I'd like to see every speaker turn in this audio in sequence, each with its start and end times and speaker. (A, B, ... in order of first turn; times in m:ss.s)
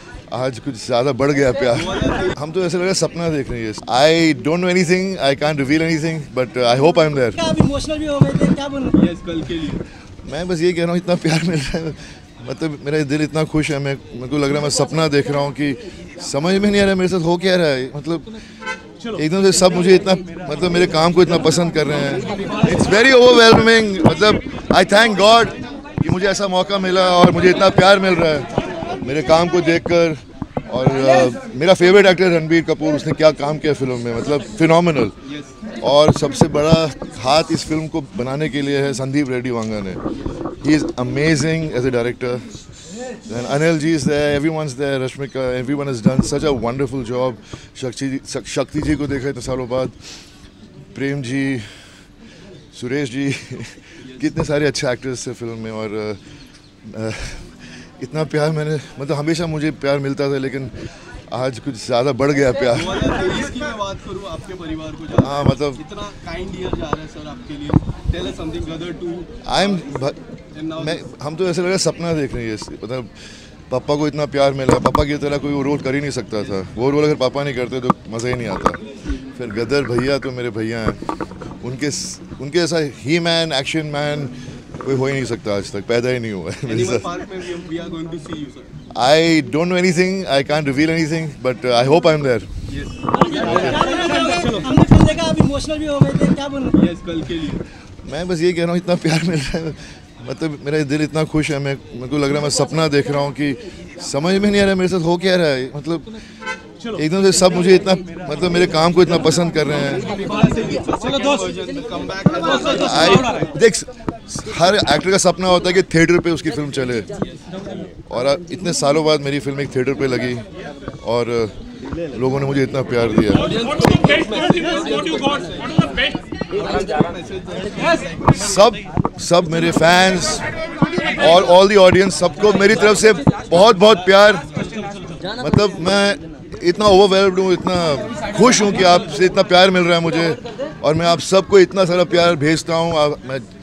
0:00.3-0:07.5 A
0:01.7-0:02.4 B
0:07.4-0:09.0 C
0:08.9-0:09.8 B
0:10.2-0:18.4 A
0:19.1-0:35.2 A
0:35.2-0:35.6 B
0:35.8-0:40.0 A
0:40.6-0:42.5 A
0:43.3-0:50.0 A
0:50.9-0:51.7 A
0:52.7-0:56.2 A
0:54.0-0:54.3 B
0:56.8-1:00.7 A
1:01.3-1:03.0 A
1:02.7-1:09.9 B
1:05.1-1:05.8 A
1:09.4-1:10.2 A
1:10.5-1:11.1 B
1:10.8-1:21.0 A
1:21.6-1:27.1 A
1:26.7-1:28.8 B
1:28.9-1:32.5 A
1:32.7-1:34.6 B
1:33.3-1:33.9 A
1:33.7-1:36.8 C
1:36.7-1:37.6 B
1:38.0-1:46.2 A
1:46.8-1:50.2 A
1:49.9-1:53.4 B
1:52.7-1:57.2 A
1:57.2-1:57.6 B
1:58.1-2:00.5 A
2:01.0-2:01.6 A
2:02.1-2:03.5 A
2:03.4-2:08.4 B
2:08.3-2:10.5 A
2:11.1-2:14.5 A
2:15.4-2:23.5 A